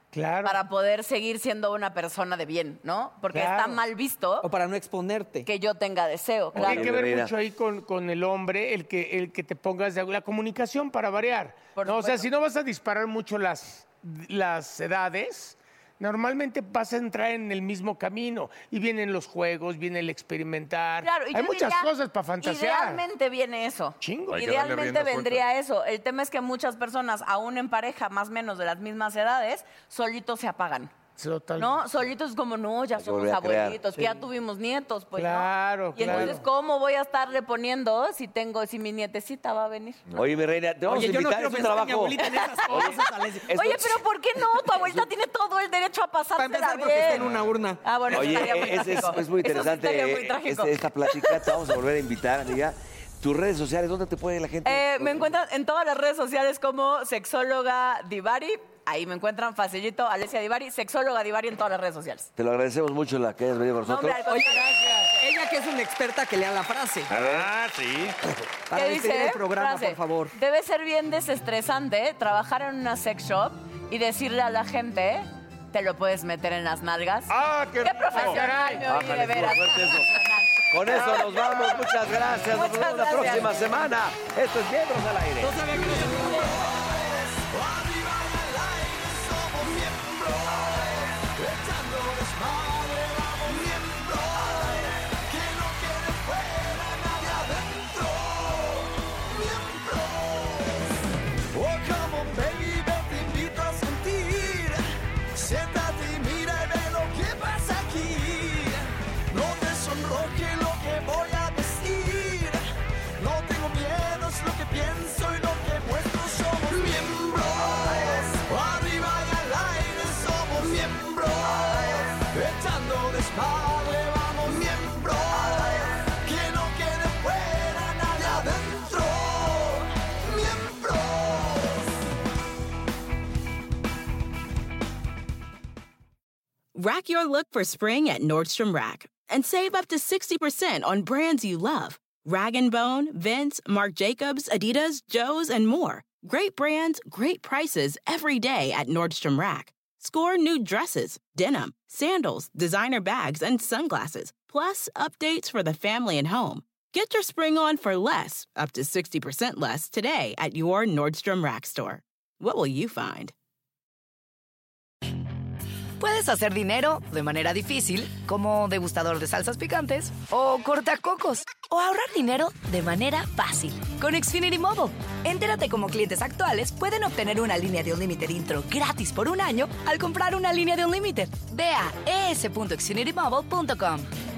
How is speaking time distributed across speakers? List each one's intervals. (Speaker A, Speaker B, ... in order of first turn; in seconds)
Speaker A: 0.1-0.6, 3.3-3.8, 6.5-23.0, 24.0-24.4, 31.2-31.9, 35.1-36.4, 78.2-78.9
Speaker B: 0.4-4.4, 5.4-6.9, 11.7-12.2, 21.0-30.9, 31.6-40.0, 42.3-42.9, 43.5-51.5, 54.6-62.3, 63.8-65.2, 68.7-77.3, 77.8-81.6, 82.5-83.6
Speaker C: 4.4-5.5, 40.9-43.5, 46.4-48.9, 64.2-67.1, 68.7-70.4, 85.5-86.0
Speaker D: 6.5-7.3, 33.0-33.8, 36.0-36.4, 40.1-44.0, 48.1-55.3, 62.4-64.2, 67.1-67.5, 78.8-80.1, 80.7-85.6
Speaker E: 24.3-25.4, 67.1-68.2, 77.3-78.4
Speaker F: 85.7-100.8, 101.5-104.8, 105.3-112.6, 113.2-131.8
Speaker G: 136.7-163.3
Speaker H: 166.0-184.1